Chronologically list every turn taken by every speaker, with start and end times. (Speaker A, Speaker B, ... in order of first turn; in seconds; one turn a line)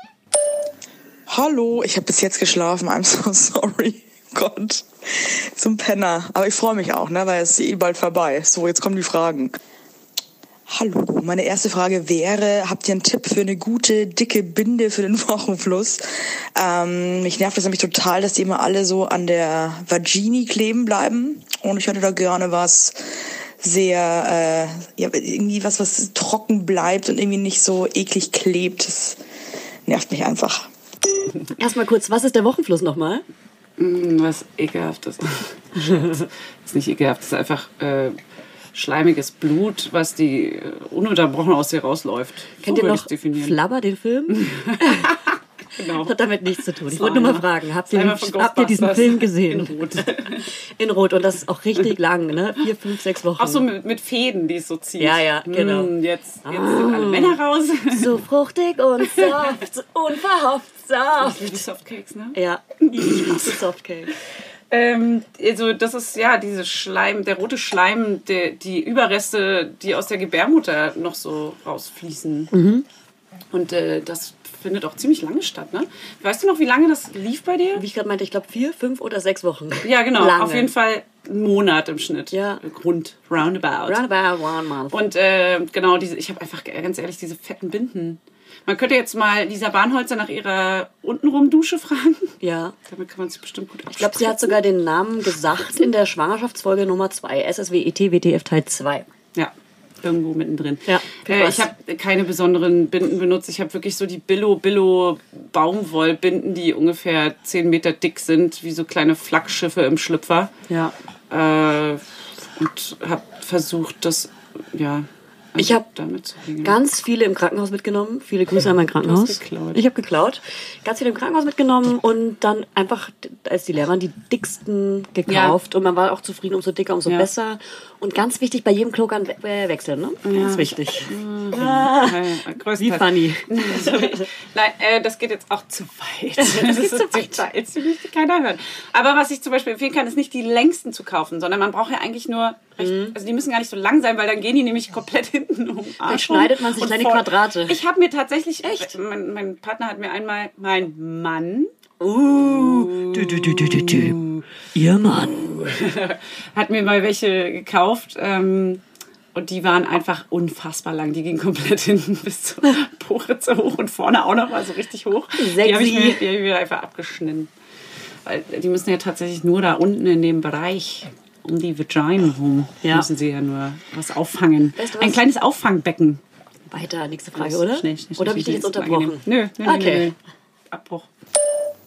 Speaker A: 1.3-9.5
Speaker A: 10.7-16.0
Speaker A: 16.5-23.1
Speaker A: 23.6-29.2
Speaker A: 29.9-30.7
Speaker B: 31.6-33.2
Speaker C: 33.8-36.1
Speaker C: 36.6-38.2
Speaker C: 38.7-43.5
Speaker B: 42.6-45.2
Speaker C: 44.3-46.1
Speaker B: 45.8-53.6
Speaker C: 46.9-50.5
Speaker C: 53.4-58.1
Speaker B: 55.0-55.9
Speaker B: 56.4-57.4
Speaker B: 57.9-61.6
Speaker C: 61.2-63.5
Speaker B: 62.3-64.1
Speaker C: 64.7-72.5
Speaker B: 72.5-72.8
Speaker C: 73.5-77.8
Speaker B: 77.7-80.7
Speaker C: 79.8-84.0
Speaker B: 82.3-82.6
Speaker B: 83.9-85.0
Speaker C: 84.9-92.3
Speaker B: 92.4-92.8
Speaker C: 92.9-94.5
Speaker B: 93.9-99.1
Speaker C: 99.3-110.5
Speaker B: 100.8-101.7
Speaker B: 110.7-110.9
Speaker C: 111.3-116.8
Speaker B: 115.6-115.8
Speaker B: 116.6-132.2
Speaker C: 119.0-119.8
Speaker C: 125.3-125.6
Speaker C: 130.2-151.7
Speaker B: 132.8-134.2
Speaker B: 136.4-137.4
Speaker B: 142.8-143.1
Speaker B: 146.1-147.8
Speaker B: 148.6-148.9
Speaker B: 152.0-154.2
Speaker C: 152.2-154.4
Speaker B: 154.7-155.5
Speaker C: 155.3-158.8
Speaker C: 159.3-167.5
Speaker B: 165.4-166.2
Speaker C: 168.2-176.2
Speaker B: 172.8-173.1
Speaker B: 174.8-175.2
Speaker B: 176.7-180.1
Speaker C: 177.3-180.2
Speaker C: 180.7-181.1